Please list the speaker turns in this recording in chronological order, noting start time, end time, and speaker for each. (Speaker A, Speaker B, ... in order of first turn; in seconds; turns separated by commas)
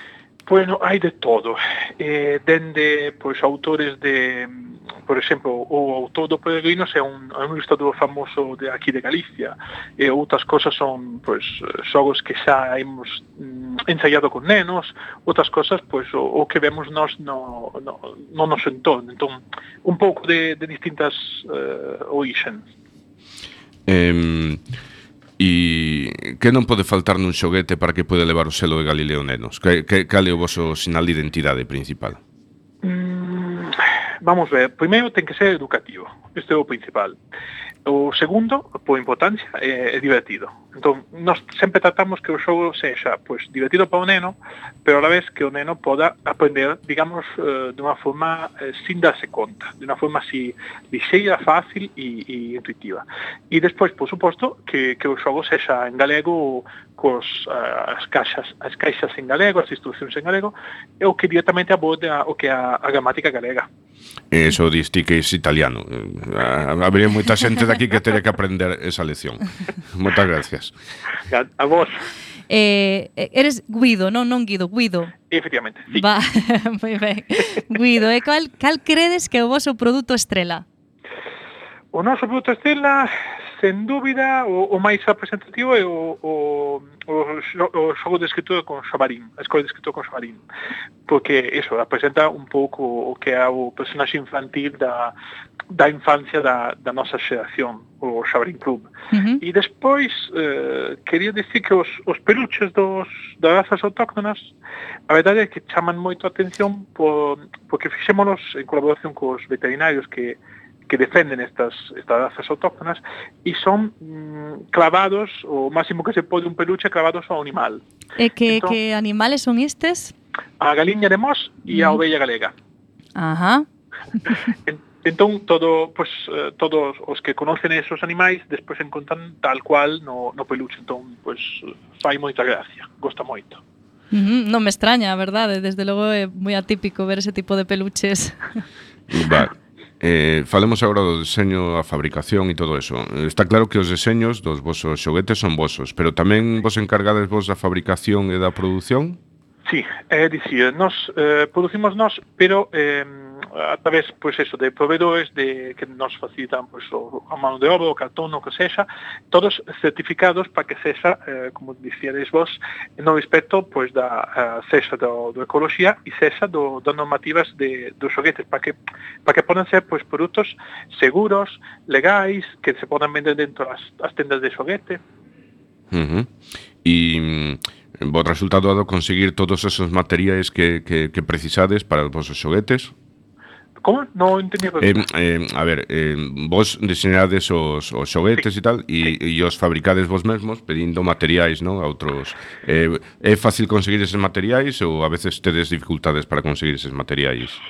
Speaker A: 0.5-22.6, Speaker B: 23.9-24.6, Speaker B: 25.4-32.2, Speaker A: 32.8-37.2, Speaker A: 37.9-63.7, Speaker B: 64.3-70.7, Speaker A: 71.3-72.0, Speaker C: 72.5-75.1, Speaker A: 75.3-76.1, Speaker C: 75.9-80.7, Speaker A: 81.9-90.4, Speaker A: 91.1-95.1, Speaker A: 95.7-98.9, Speaker C: 99.1-99.4, Speaker A: 99.4-104.5, Speaker A: 105.1-117.8, Speaker C: 118.2-120.1, Speaker A: 118.5-118.8, Speaker A: 120.6-122.5, Speaker C: 121.7-122.0, Speaker C: 123.2-123.7, Speaker A: 124.7-133.6, Speaker C: 134.1-138.5, Speaker B: 139.1-149.2, Speaker A: 149.7-175.0, Speaker B: 175.9-176.3, Speaker B: 176.8-182.9, Speaker A: 183.8-185.0, Speaker B: 184.8-197.6